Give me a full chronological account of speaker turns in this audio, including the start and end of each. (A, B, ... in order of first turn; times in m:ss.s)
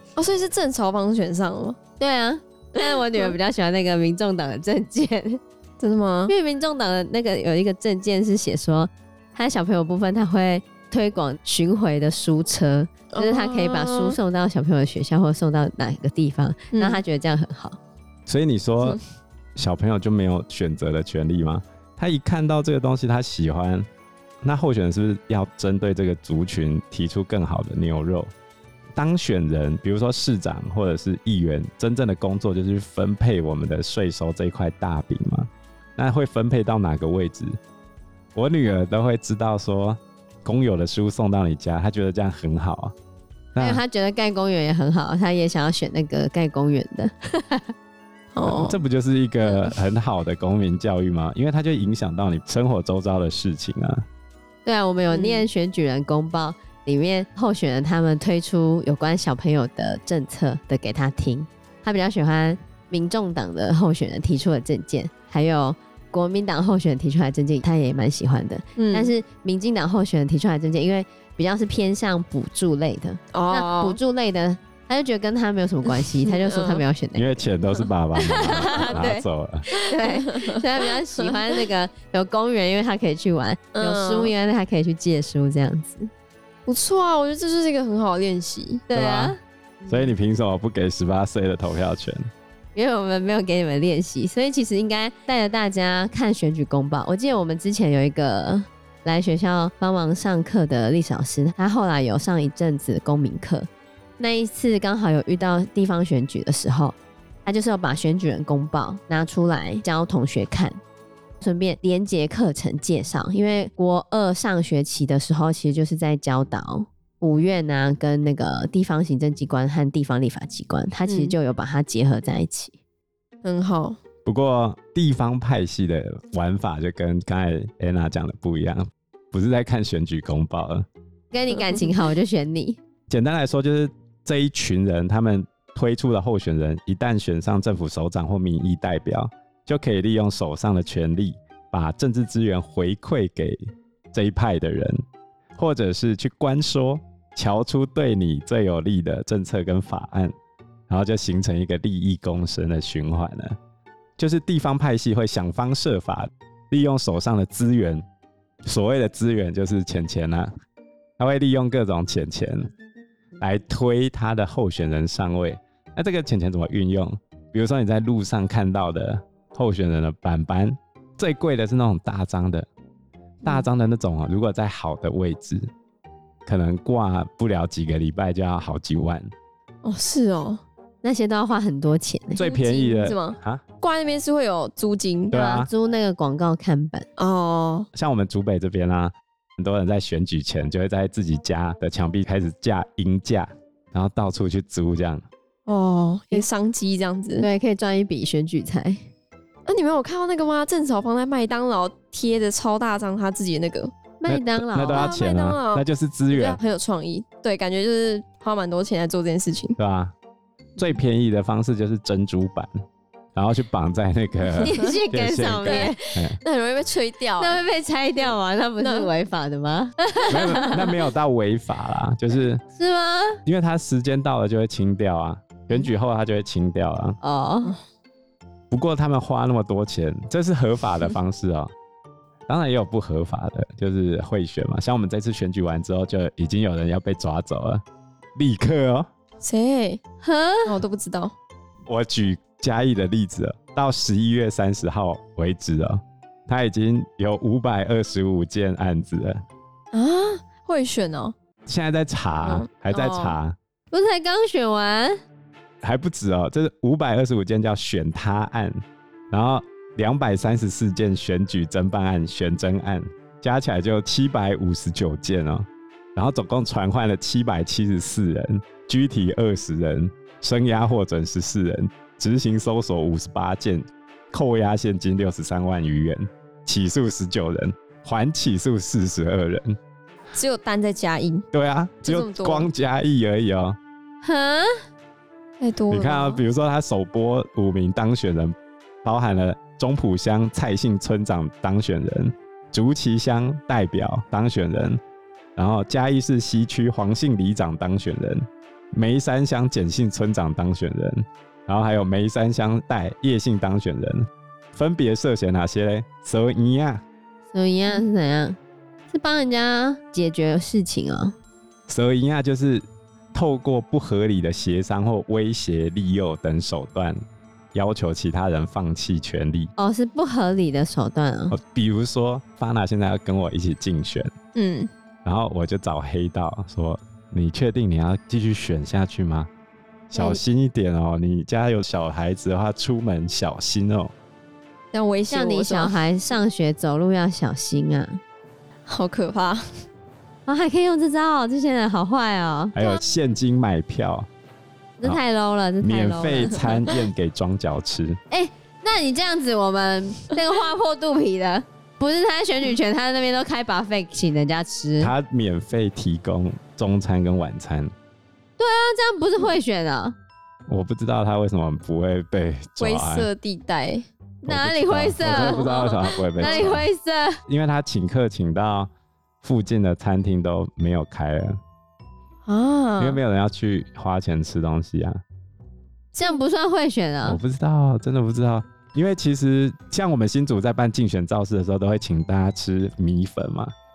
0:00.2-0:01.8 A
0:02.0-0:05.4 B
0:02.8-0:03.4 A
0:05.8-0:06.3 A
0:06.3-0:17.8 B
0:13.1-0:14.2 A
0:16.7-0:17.0 A
0:18.3-0:19.0 C
0:19.6-0:23.9 C
0:24.4-0:28.3 C
0:29.0-0:37.6 C
0:38.4-0:43.0 C
0:43.6-0:43.8 C
0:43.6-0:47.7 B
0:48.3-0:48.8 A
0:48.5-0:54.0 C
0:54.6-1:17.3 B
0:55.1-0:55.5 A
1:08.8-1:09.1 A
1:13.3-1:14.0 A
1:16.0-1:16.9 A
1:17.2-1:19.7 C
1:18.2-1:26.1 B
1:18.6-1:19.0 A
1:19.7-1:20.5 A
1:23.7-1:24.3 A
1:26.7-1:28.8 A
1:28.9-1:29.4 B
1:28.9-1:32.3 C
1:32.8-1:43.7 B
1:44.2-1:50.8 B
1:51.4-2:02.8 B
2:01.1-2:01.4 A
2:03.4-2:04.0 A
2:04.2-2:10.9 C
2:11.3-2:12.8 B
2:13.1-2:23.6 C
2:24.1-2:25.0 C
2:25.6-2:30.3 C
2:30.9-2:33.6 C
2:34.2-2:38.0 C
2:38.7-2:40.5 C
2:41.2-2:42.7 C
2:43.4-2:52.7 C
2:53.4-2:55.7 C
2:56.5-2:59.3 C
2:59.8-3:00.6 A
3:01.0-3:02.4 B
3:02.4-3:03.6 C
3:02.4-3:05.4 A
3:05.3-3:05.7 C
3:05.3-3:07.0 B
3:07.2-3:07.9 A
3:07.9-3:15.3 C
3:15.7-3:17.5 A
3:17.4-3:19.0 B
3:19.7-3:23.9 A
3:24.2-3:25.1 B
3:24.3-3:26.6 C
3:24.9-3:29.8 A
3:29.8-3:30.1 C
3:30.8-3:32.7 C
3:33.4-3:36.4 C
3:34.6-3:36.2 B
3:34.6-3:34.9 A
3:35.6-3:37.6 A
3:37.4-3:40.9 B
3:38.8-3:39.1 A
3:40.3-3:42.6 C
3:42.7-3:43.4 B
3:43.4-3:47.2 C
3:47.2-3:47.7 B
3:48.7-3:51.7 C
3:52.5-3:57.8 C
3:58.4-3:59.1 C
3:59.4-4:00.0 A
4:00.2-4:00.8 B
4:00.6-4:01.3 A
4:01.9-4:09.4 C
4:09.9-4:11.3 A
4:11.7-4:13.6 C
4:12.4-4:13.4 A
4:13.9-4:15.2 B
4:15.8-4:39.8 C
4:40.3-4:41.5 A
4:41.5-4:43.8 C
4:42.0-4:42.7 A
4:44.2-4:44.8 B
4:45.6-4:46.4 A
4:45.9-4:55.0 C
4:55.6-5:07.0 C
5:07.5-5:08.6 B
5:09.1-5:11.4 B
5:11.9-5:17.2 C
5:17.7-5:19.7 C
5:19.8-5:21.6 B
5:21.5-5:24.3 C
5:24.6-5:24.9 A
5:25.2-5:29.5 C
5:30.1-5:30.4 A
5:30.1-5:34.1 C
5:34.9-5:36.0 A
5:35.3-5:38.2 B
5:38.9-5:39.6 A
5:40.5-5:42.8 B
5:42.8-5:44.3 C
5:45.0-5:46.7 B
5:45.8-5:48.2 C
5:48.3-5:55.1 B
5:55.0-5:57.9 C
5:58.6-6:00.2 B
6:00.7-6:03.3 C
6:02.8-6:04.1 A
6:04.4-6:06.9 C
6:04.4-6:07.4 B
6:05.2-6:06.8 A
6:07.5-6:08.9 C
6:09.4-6:11.6 C
6:12.4-6:13.2 A
6:13.0-6:15.2 C
6:16.2-6:17.4 B
6:17.2-6:23.7 C